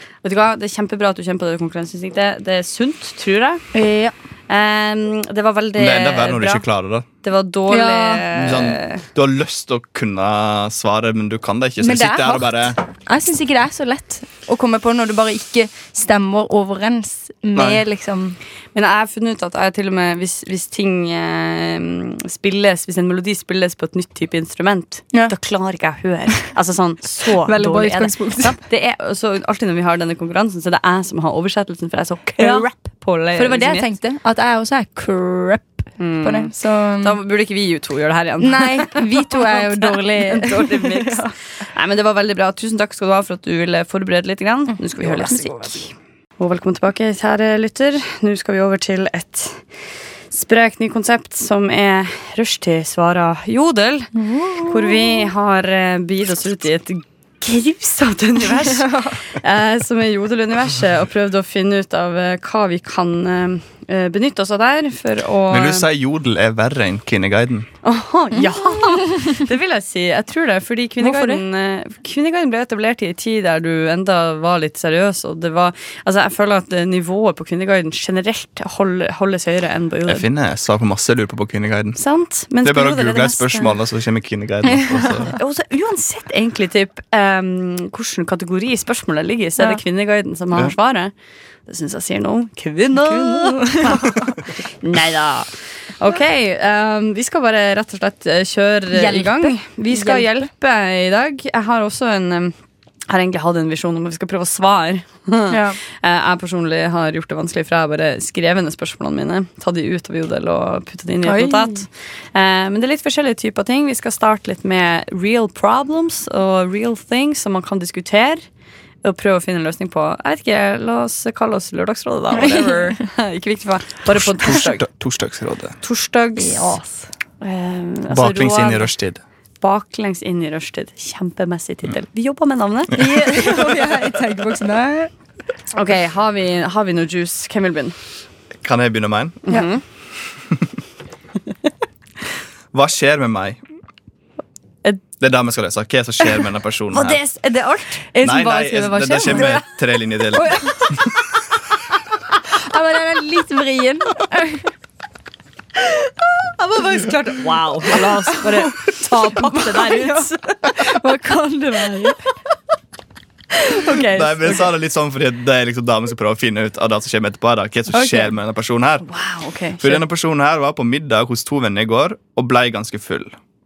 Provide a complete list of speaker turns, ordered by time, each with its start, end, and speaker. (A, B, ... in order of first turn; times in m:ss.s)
0:00.2-0:03.7 A
0:03.7-0:04.1 B
0:04.5-0:06.6 A
0:05.8-0:07.0 C
0:07.2-0:09.0 A
0:07.7-0:08.3 B
0:08.4-0:12.8 C
0:11.8-0:18.4 B
0:17.6-0:17.8 C
0:18.7-0:33.9 A
0:27.2-0:28.6 B
0:32.4-0:32.7 B
0:33.3-0:37.2 B
0:36.0-0:49.6 A
0:38.4-0:41.3 B
0:44.9-0:45.5 B
0:50.3-0:54.1 A
0:54.1-0:55.3 B
0:54.6-1:05.8 A
0:58.6-0:59.2 B
1:05.5-1:07.7 C
1:07.8-1:20.2 A
1:08.4-1:09.4 B
1:11.0-1:11.4 B
1:20.1-1:22.0 C
1:22.0-1:23.7 A
1:22.6-1:25.3 C
1:25.2-1:31.1 A
1:31.7-1:42.5 A
1:32.9-1:34.2 B
1:38.9-1:40.5 B
1:43.1-1:58.4 A
1:45.5-1:45.8 B
1:51.2-1:51.8 B
1:59.0-2:04.8 A
2:02.3-2:02.9 B
2:04.1-2:05.8 C
2:05.8-2:06.8 A
2:06.4-2:07.1 B
2:07.4-2:08.9 A
2:08.1-2:09.2 C
2:09.6-2:13.6 A
2:12.9-2:15.1 B
2:15.7-2:17.9 A
2:18.6-2:19.4 C
2:19.5-2:19.8 A
2:22.7-2:23.6 C
2:25.2-2:27.2 C
2:26.9-2:29.6 A
2:28.2-2:30.9 C
2:28.3-2:29.6 B
2:30.3-2:31.1 B
2:32.4-2:34.7 B
2:36.6-2:40.6 A
2:37.9-2:42.2 B
2:43.6-2:44.6 A
2:44.1-2:49.1 C
2:47.9-2:48.3 A
2:49.0-2:50.0 A
2:49.8-2:53.3 C